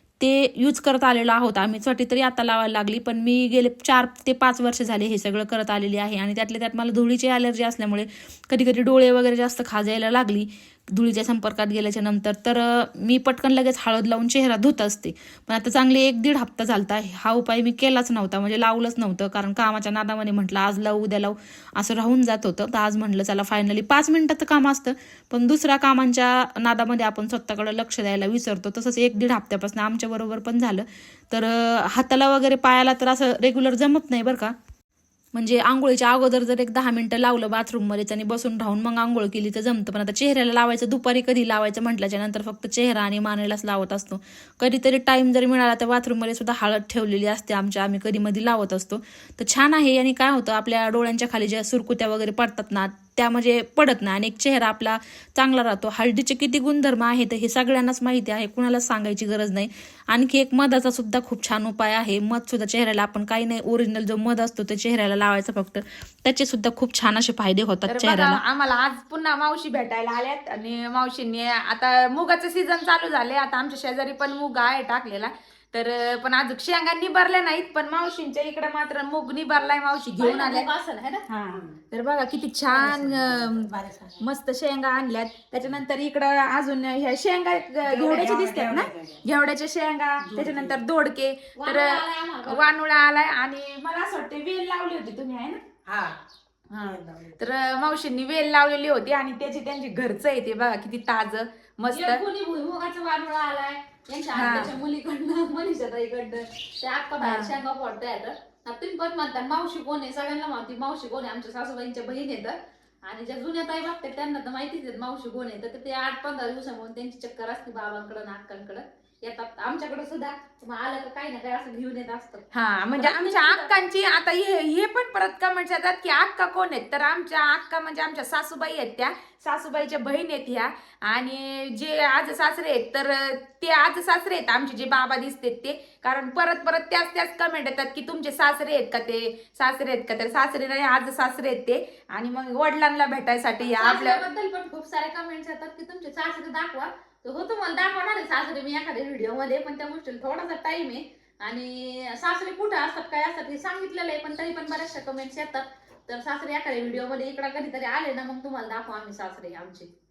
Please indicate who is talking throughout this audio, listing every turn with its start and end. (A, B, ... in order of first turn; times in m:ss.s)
0:00.2-0:34.5 A
0:35.3-1:08.4 A
1:07.9-1:20.7 B
1:20.2-1:21.2 A
1:21.3-1:35.6 B
1:21.5-1:21.8 C
1:22.7-1:24.2 C
1:27.8-1:29.2 C
1:30.2-1:30.8 C
1:31.5-1:32.7 A
1:35.8-1:36.1 C
1:36.7-1:42.2 B
1:36.8-1:37.4 C
1:41.9-2:03.7 A
1:44.3-1:44.7 B
1:47.2-1:47.5 B
2:02.5-2:24.2 B
2:23.6-2:39.9 A